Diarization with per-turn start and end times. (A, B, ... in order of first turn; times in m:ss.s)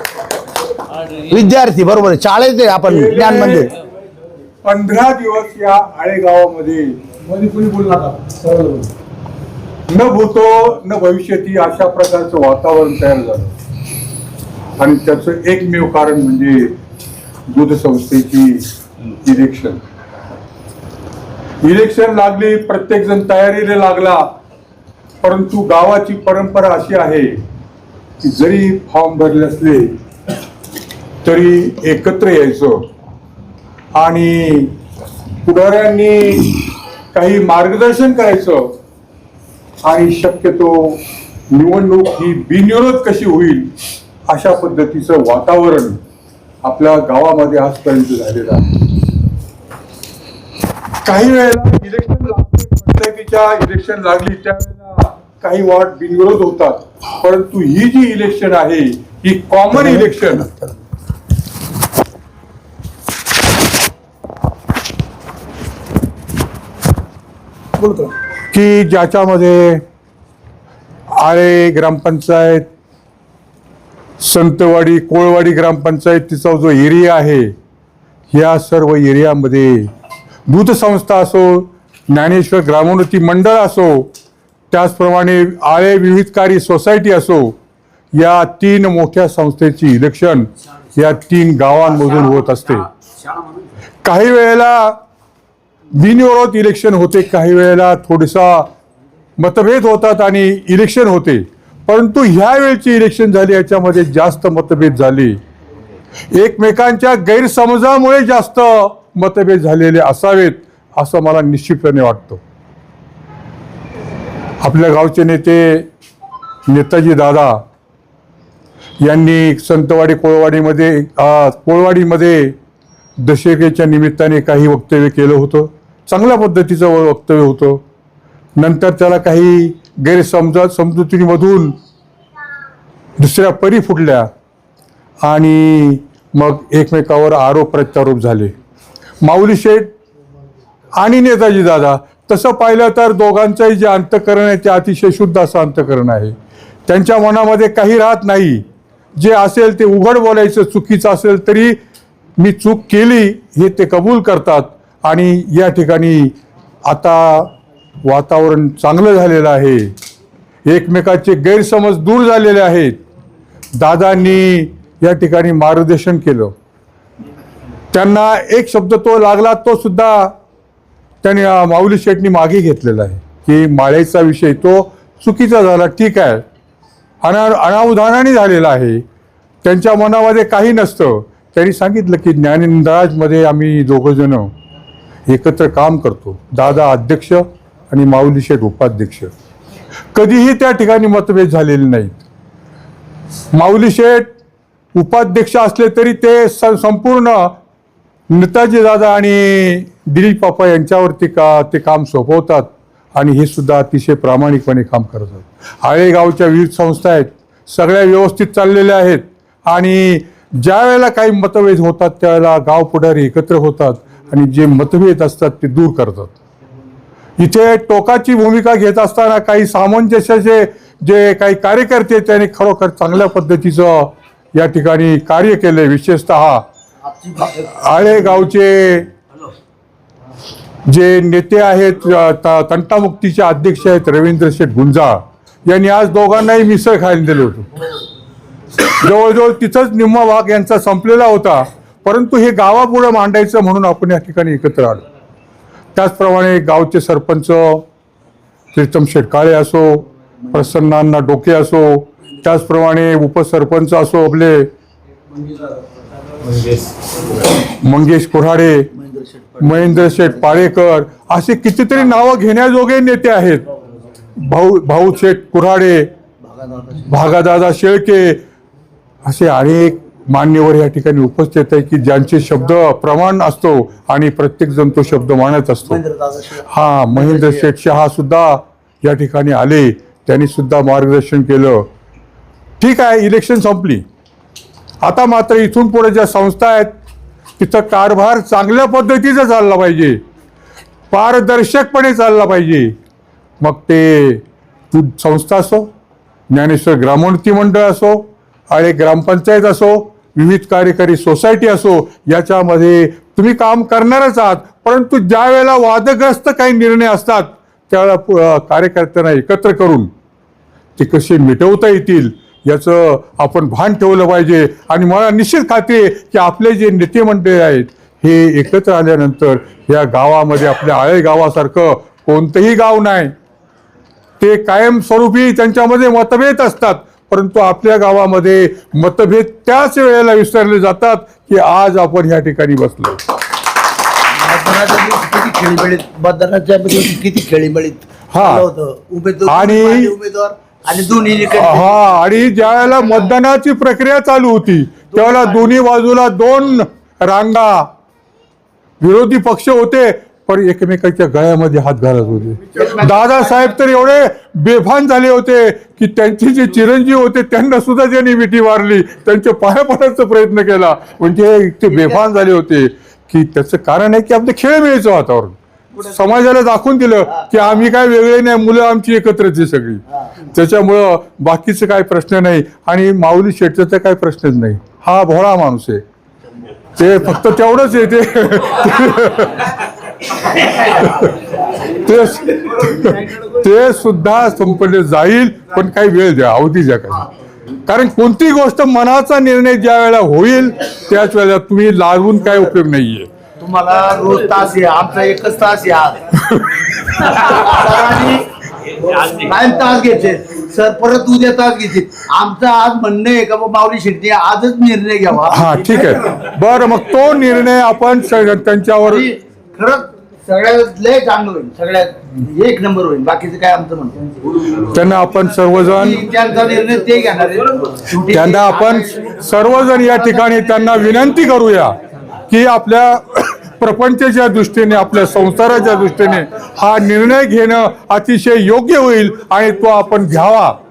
0:01.1-0:03.8 A
0:02.9-0:03.7 B
0:04.6-0:07.0 B
0:07.2-0:08.9 A
0:09.9-0:13.6 B
0:14.8-0:16.8 B
0:17.5-0:18.7 B
0:19.2-0:19.8 B
0:21.6-0:24.3 B
0:25.2-0:27.3 B
0:28.2-0:30.0 B
0:31.2-0:32.9 B
0:34.0-0:34.8 B
0:35.4-0:36.6 B
0:37.1-0:38.7 B
0:39.8-0:43.7 B
0:44.3-0:46.0 B
0:46.6-0:48.7 B
0:51.0-1:00.5 B
0:59.8-1:00.7 A
1:07.8-1:08.1 A
1:08.5-1:09.8 B
1:11.1-1:12.7 B
1:14.2-1:17.5 B
1:18.3-1:19.9 B
1:20.5-1:24.1 B
1:24.7-1:27.6 B
1:28.1-1:32.9 B
1:34.0-1:35.0 B
1:36.0-1:38.7 B
1:39.4-1:45.4 B
1:46.3-1:52.4 B
1:54.6-1:55.9 B
1:56.7-1:57.6 B
1:59.0-2:02.6 B
2:03.2-2:07.8 B
2:08.6-2:11.8 B
2:13.2-2:14.3 B
2:15.2-2:18.5 B
2:19.2-2:19.9 B
2:21.0-2:26.4 B
2:26.9-2:28.6 B
2:29.2-2:31.8 B
2:32.4-2:36.4 B
2:36.9-2:37.5 B
2:38.0-2:39.9 B
2:40.7-2:43.0 B
2:43.8-2:46.5 B
2:47.9-2:50.3 B
2:51.2-2:56.4 B
2:57.2-2:59.0 B
2:59.6-3:04.5 B
3:05.3-3:09.3 B
3:10.1-3:12.2 B
3:13.5-3:14.3 B
3:14.9-3:17.6 B
3:18.3-3:36.4 B
3:37.4-3:46.6 B
3:47.0-3:48.1 A
3:47.5-3:49.1 B
3:50.9-3:57.8 B
3:58.8-4:05.0 B
4:06.0-4:07.9 B
4:08.7-4:14.7 B
4:17.6-4:18.9 B
4:18.9-4:20.7 A
4:19.6-4:23.7 B
4:24.4-4:26.1 B
4:26.4-4:27.1 A
4:27.1-4:28.4 B
4:29.2-4:36.0 B
4:35.9-4:37.7 A
4:36.7-4:41.9 B
4:42.8-4:44.0 B
4:45.0-4:46.9 B
4:47.6-4:50.2 B
4:51.1-4:53.0 B
4:53.6-4:55.9 B
4:56.5-5:10.1 B
5:11.0-5:23.3 B
5:24.4-5:33.2 B
5:34.3-5:43.4 A
5:38.3-5:38.7 B
5:39.5-5:40.1 B
5:41.5-5:47.9 B
5:45.1-5:45.8 A
5:49.0-6:16.0 B
5:52.7-5:53.8 A
6:17.0-6:19.7 B
6:20.7-6:27.3 B
6:27.9-6:33.3 B
6:33.6-6:36.2 A
6:36.5-6:37.2 B
6:37.2-6:38.5 A
6:39.1-6:45.7 A
6:45.5-6:49.3 B
6:49.0-6:54.7 A
6:54.7-6:56.3 B
6:56.0-6:59.4 A
6:58.3-7:02.0 B
6:59.9-7:00.9 A
7:02.5-7:10.8 B